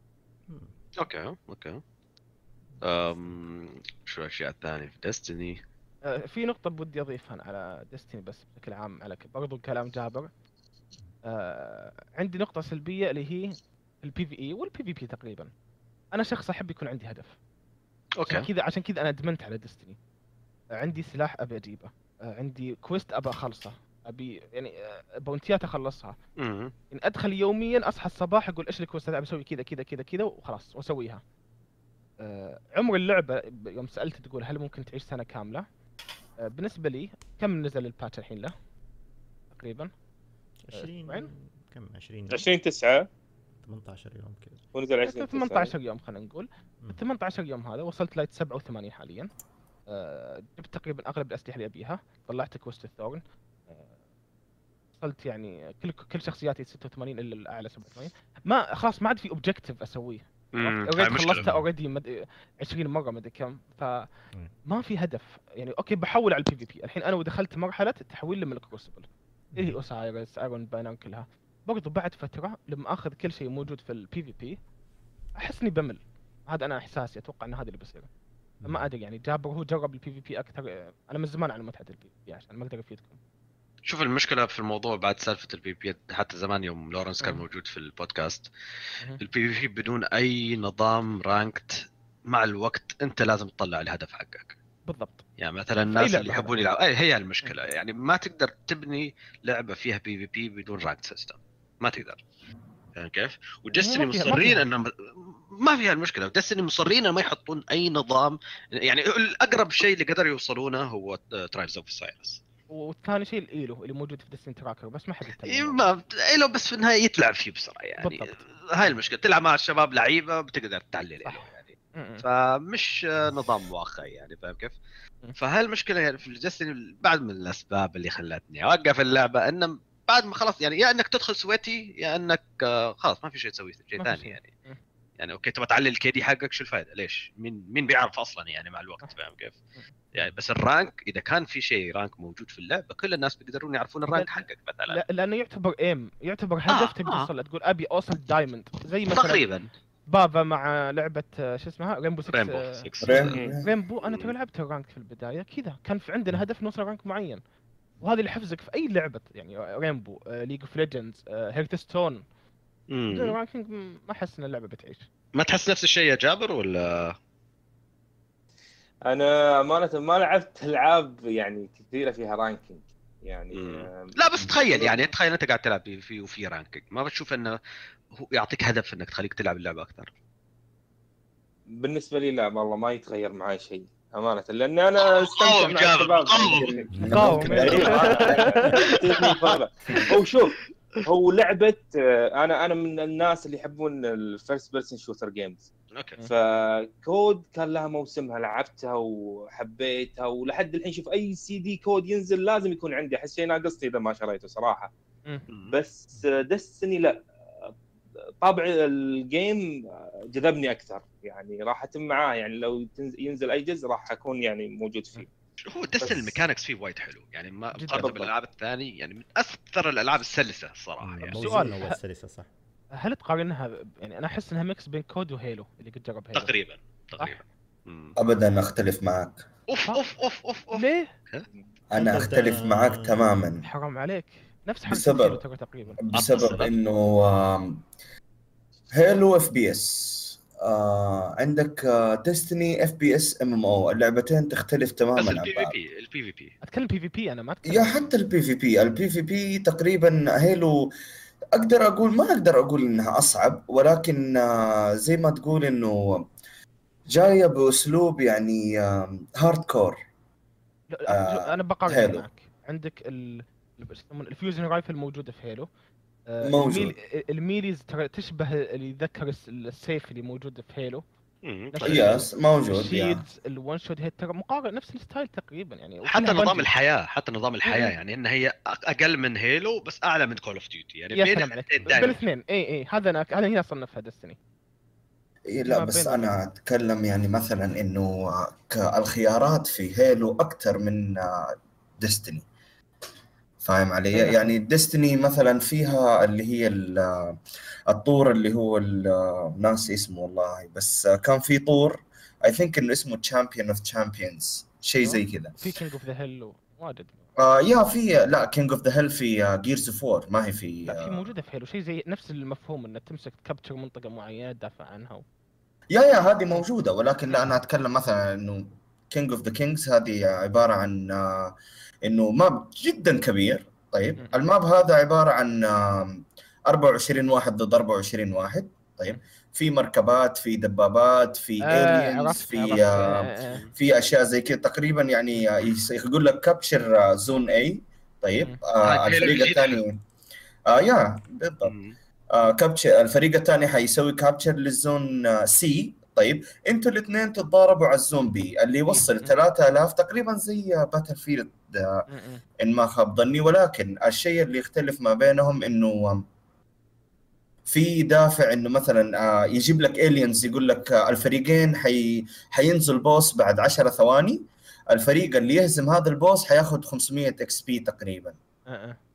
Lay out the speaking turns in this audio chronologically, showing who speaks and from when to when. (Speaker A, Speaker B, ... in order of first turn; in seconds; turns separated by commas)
Speaker A: 0.5-0.7, Speaker B: 1.0-1.8, Speaker A: 2.7-3.4, Speaker B: 2.8-5.6, Speaker C: 6.1-10.3, Speaker C: 11.2-15.5, Speaker C: 16.1-17.4, Speaker B: 18.2-18.5, Speaker C: 18.2-20.0, Speaker C: 20.7-26.1, Speaker B: 26.4-26.7, Speaker C: 26.9-31.2, Speaker C: 32.2-35.6, Speaker C: 36.4-38.5, Speaker C: 39.5-39.9, Speaker A: 40.6-42.5, Speaker C: 40.7-41.3, Speaker D: 42.3-43.1, Speaker A: 43.6-44.6, Speaker D: 44.7-45.7, Speaker C: 45.0-49.3, Speaker C: 49.9-53.9, Speaker C: 55.0-64.1, Speaker B: 60.5-61.4, Speaker A: 61.3-61.7, Speaker C: 64.7-74.6, Speaker A: 69.5-69.8, Speaker C: 75.4-78.1, Speaker A: 78.6-78.8, Speaker C: 78.6-83.2, Speaker B: 83.8-88.5, Speaker B: 89.2-94.5, Speaker C: 94.9-95.2, Speaker B: 95.4-102.2, Speaker C: 95.9-96.5, Speaker B: 102.9-112.4, Speaker C: 103.8-104.6, Speaker C: 112.7-115.8, Speaker B: 115.4-124.8, Speaker C: 118.0-118.3, Speaker C: 121.2-122.2, Speaker B: 125.4-134.5, Speaker C: 134.0-134.8, Speaker B: 135.2-139.6, Speaker B: 140.1-145.0, Speaker C: 144.1-152.8, Speaker B: 146.7-147.3, Speaker B: 149.1-149.7, Speaker B: 152.3-153.4, Speaker E: 153.0-153.7, Speaker D: 153.3-153.6, Speaker C: 153.6-157.4, Speaker B: 154.0-154.3, Speaker C: 158.0-162.2, Speaker B: 162.9-163.4, Speaker C: 163.1-165.1, Speaker B: 165.3-167.1, Speaker D: 169.1-175.0, Speaker B: 173.5-177.6, Speaker B: 178.2-180.1, Speaker D: 181.8-195.7, Speaker B: 185.1-186.8, Speaker E: 186.9-188.7, Speaker A: 186.9-187.9, Speaker C: 187.1-188.8, Speaker B: 189.0-189.5, Speaker D: 196.3-204.9, Speaker B: 205.5-205.7, Speaker D: 205.7-207.2, Speaker D: 208.4-209.6, Speaker D: 210.3-215.3, Speaker B: 215.6-221.6, Speaker D: 216.0-216.4, Speaker C: 217.8-218.2, Speaker D: 217.9-218.3, Speaker A: 221.0-222.5, Speaker C: 221.4-222.0, Speaker C: 223.0-226.5, Speaker B: 226.3-228.2, Speaker E: 228.2-229.4, Speaker B: 229.7-231.4, Speaker C: 230.7-231.1, Speaker E: 231.9-233.6, Speaker A: 231.9-233.3, Speaker C: 233.6-236.0, Speaker E: 234.9-235.4, Speaker E: 236.0-237.8, Speaker B: 236.1-236.7, Speaker E: 238.9-245.7, Speaker B: 245.2-246.5, Speaker C: 246.6-248.1, Speaker E: 247.7-250.9, Speaker E: 251.5-256.2, Speaker E: 257.1-260.0, Speaker C: 260.9-265.7, Speaker E: 261.1-262.2, Speaker C: 266.3-271.0, Speaker E: 266.4-266.9, Speaker B: 271.4-272.2, Speaker C: 271.7-276.7, Speaker E: 271.8-273.2, Speaker B: 276.1-282.2, Speaker C: 277.6-277.9, Speaker C: 281.1-284.4, Speaker E: 285.5-292.4, Speaker C: 285.7-286.3, Speaker E: 293.6-305.7, Speaker C: 294.1-294.5, Speaker C: 305.0-307.3, Speaker E: 307.4-311.3, Speaker C: 310.9-315.2, Speaker E: 315.9-340.0, Speaker C: 324.2-324.4, Speaker C: 331.6-333.6, Speaker B: 338.8-339.8, Speaker E: 340.7-341.7, Speaker B: 341.6-341.9, Speaker E: 342.3-352.1, Speaker C: 348.9-349.4, Speaker C: 352.1-352.4, Speaker E: 352.6-356.2, Speaker E: 357.7-368.3, Speaker C: 368.7-369.0